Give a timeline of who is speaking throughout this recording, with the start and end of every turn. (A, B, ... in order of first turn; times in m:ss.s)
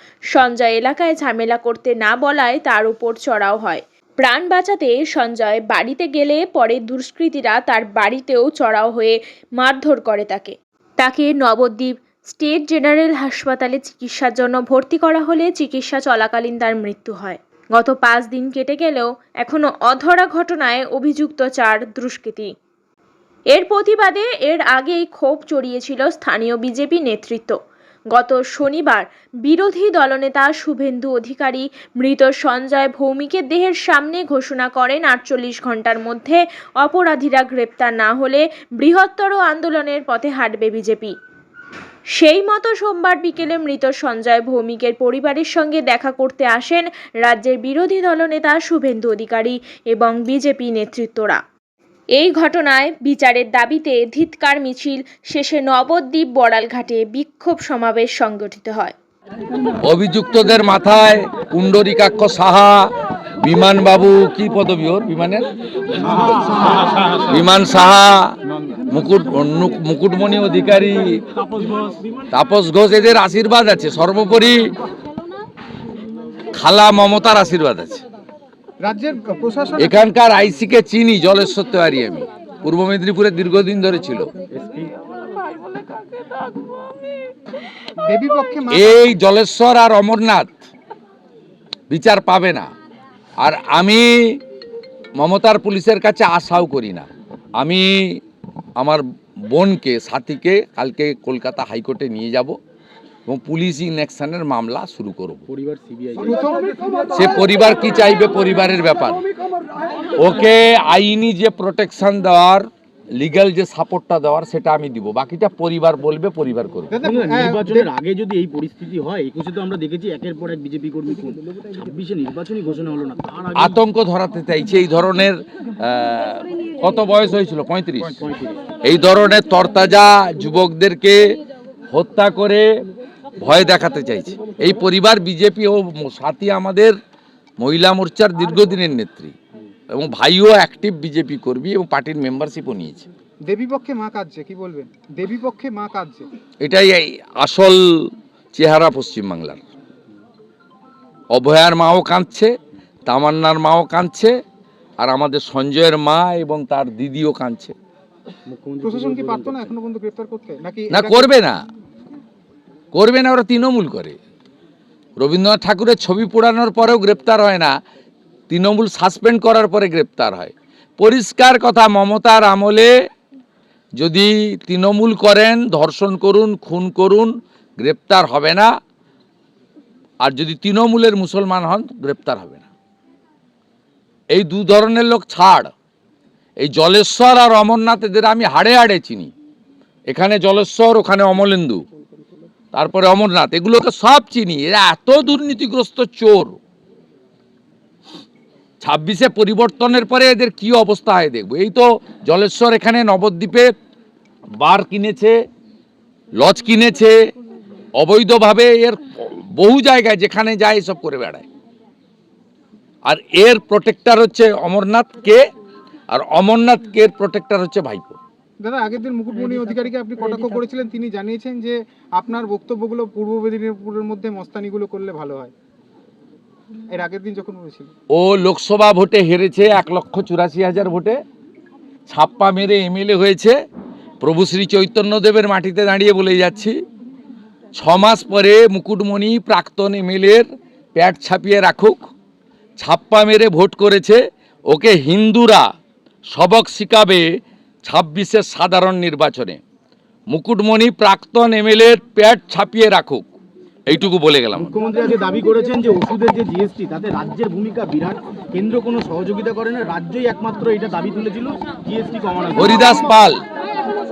0:00.3-0:22.5 A
0:23.5-0:27.6 A
0:28.1-0:41.1 A
0:42.2-0:51.4 A
0:52.2-0:58.9 A
0:59.8-1:05.5 B
1:07.2-1:08.4 B
1:08.9-1:11.2 B
1:12.3-1:14.7 B
1:16.5-1:18.0 B
1:18.8-1:20.0 C
1:19.8-1:24.3 B
1:24.6-1:24.9 D
1:28.0-1:29.0 C
1:28.7-1:30.5 B
1:31.9-1:32.7 B
1:33.4-1:34.4 B
1:35.2-1:38.2 B
1:38.8-1:42.6 B
1:43.2-1:45.4 B
1:45.5-1:46.4 D
1:46.2-1:46.7 C
1:47.1-1:49.2 B
1:50.2-1:56.9 B
1:56.9-1:57.9 C
1:57.0-2:03.8 D
2:03.5-2:08.2 B
2:08.2-2:08.6 D
2:08.8-2:11.3 B
2:11.9-2:12.7 B
2:13.4-2:16.9 B
2:17.6-2:19.3 B
2:19.9-2:23.0 B
2:23.4-2:26.3 C
2:26.6-2:29.6 B
2:31.3-2:32.5 B
2:33.0-2:34.3 B
2:35.0-2:37.7 B
2:38.5-2:39.7 D
2:38.8-2:41.3 C
2:40.9-2:41.6 B
2:42.9-2:44.2 B
2:45.2-2:47.8 B
2:48.5-2:52.9 B
2:54.0-2:58.7 B
3:00.2-3:02.7 B
3:04.3-3:05.7 B
3:06.6-3:09.3 B
3:10.1-3:11.8 B
3:12.7-3:16.6 B
3:18.8-3:23.7 B
3:24.6-3:25.4 B
3:26.4-3:27.2 B
3:28.0-3:31.4 B
3:33.0-3:35.4 B
3:36.1-3:38.2 B
3:38.6-3:45.5 C
3:46.9-3:47.9 C
3:48.1-3:51.2 B
3:52.1-3:53.5 B
3:54.2-3:56.8 B
3:57.7-4:02.0 B
4:02.8-4:05.6 B
4:06.3-4:07.3 B
4:07.8-4:09.6 B
4:10.3-4:13.3 B
4:13.9-4:14.8 B
4:14.5-4:22.8 D
4:22.5-4:23.4 B